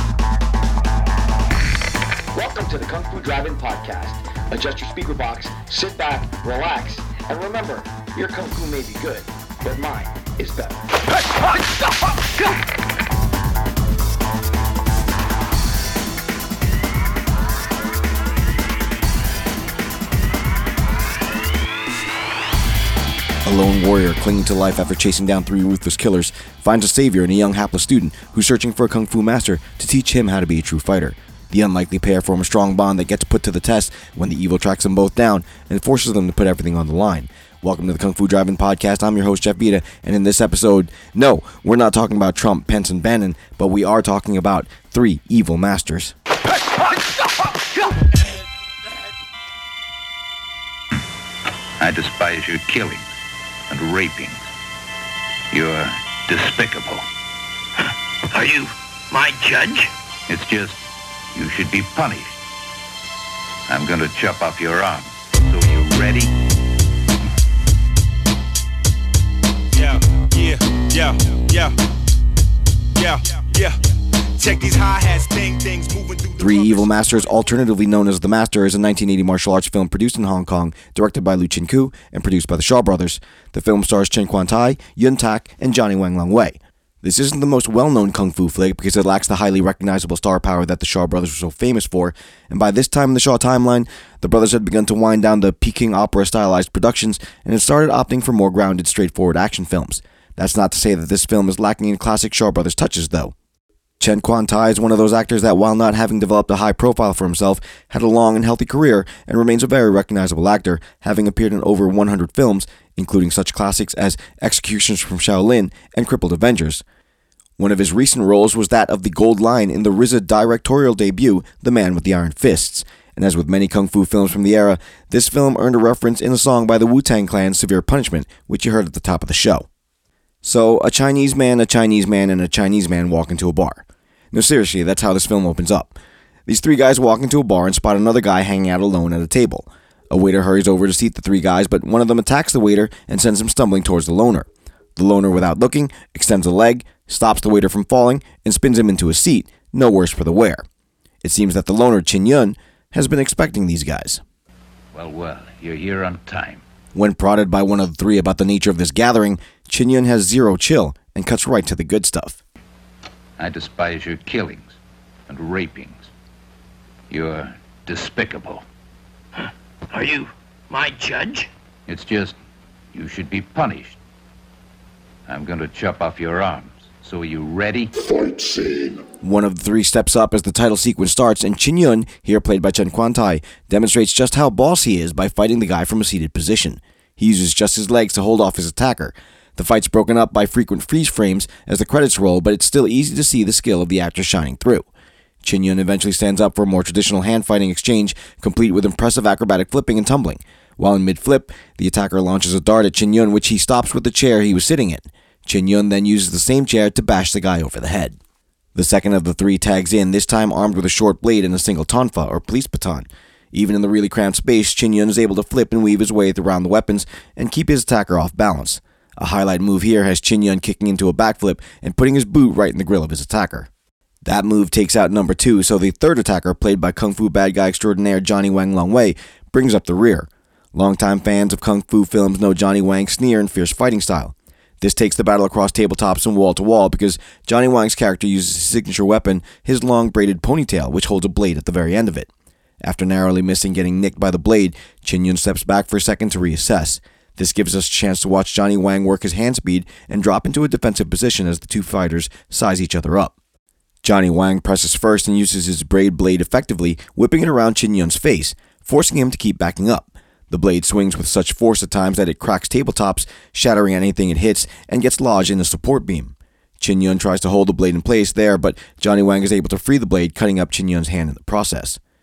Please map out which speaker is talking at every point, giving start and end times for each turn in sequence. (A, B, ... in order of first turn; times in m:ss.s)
0:02.3-0:10.8 A
0:23.4-0:46.1 B
0:51.8-0:53.1 C
0:53.7-0:54.5 C
0:55.5-0:57.1 C
0:58.3-0:59.9 D
1:00.3-1:00.8 C
1:01.3-1:02.4 C
1:03.7-1:06.4 C
1:09.7-1:11.7 E
1:13.0-1:13.8 E
1:14.4-1:17.5 E
1:16.4-1:43.3 B
1:44.0-1:56.8 B
1:57.6-2:09.7 B
2:10.4-2:16.0 B
2:16.5-2:30.6 B
2:31.2-2:34.2 B
2:34.9-2:36.6 C
2:36.9-2:42.4 B
2:43.4-2:44.8 C
2:45.3-2:46.1 C
2:47.1-2:48.6 C
2:49.4-2:51.5 D
2:51.9-2:52.4 C
2:52.9-2:54.0 C
2:55.3-2:57.9 C
2:59.2-3:14.9 B
3:15.4-3:28.2 B
3:28.8-3:43.7 B
3:44.2-4:02.3 B
4:02.8-4:13.3 B
4:14.0-4:32.0 B